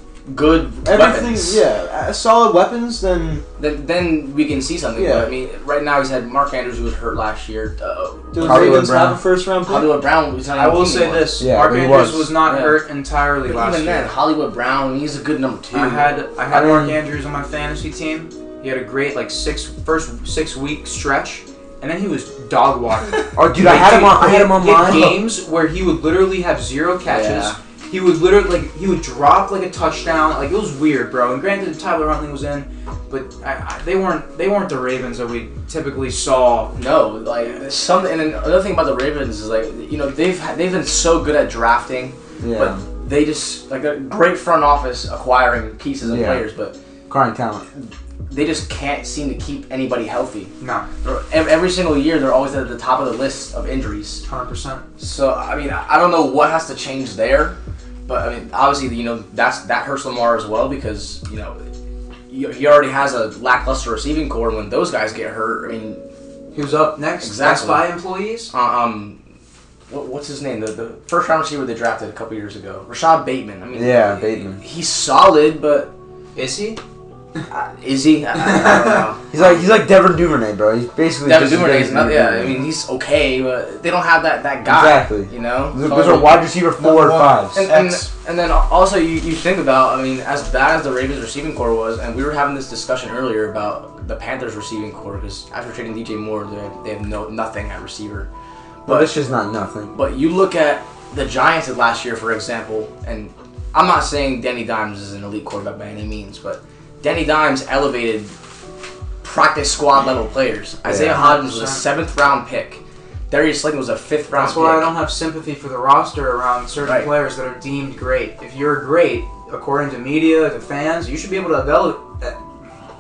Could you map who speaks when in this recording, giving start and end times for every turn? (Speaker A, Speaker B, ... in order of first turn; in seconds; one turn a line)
Speaker A: 0.3-1.6
Speaker B: 0.8-3.5
Speaker A: 3.6-8.9
Speaker B: 5.0-5.3
Speaker B: 8.3-10.0
Speaker C: 8.4-9.2
Speaker A: 9.7-11.4
Speaker D: 10.6-14.1
Speaker C: 11.4-12.3
Speaker A: 12.4-12.8
Speaker A: 13.4-16.1
Speaker D: 15.7-36.7
Speaker C: 16.5-17.0
Speaker C: 23.4-25.3
Speaker A: 27.1-27.6
Speaker A: 36.8-46.8
Speaker C: 42.4-42.8
Speaker C: 46.0-46.5
Speaker C: 47.1-47.6
Speaker A: 47.8-54.2
Speaker D: 50.6-50.9
Speaker D: 54.3-54.9
Speaker A: 55.0-57.6
Speaker A: 58.1-61.6
Speaker A: 62.3-66.0
Speaker D: 66.5-68.5
Speaker A: 67.2-67.9
Speaker A: 68.5-69.2
Speaker A: 69.9-75.9
Speaker C: 73.7-74.6
Speaker D: 76.3-76.8
Speaker A: 77.5-79.7
Speaker D: 78.4-79.0
Speaker C: 79.3-82.6
Speaker A: 81.2-86.4
Speaker C: 84.7-87.6
Speaker B: 86.0-88.1
Speaker A: 87.5-98.3
Speaker A: 98.8-99.1
Speaker C: 98.9-99.9
Speaker A: 99.9-108.3
Speaker A: 109.2-115.0
Speaker C: 110.9-111.2
Speaker D: 111.0-111.8
Speaker D: 114.3-122.4
Speaker A: 116.8-117.1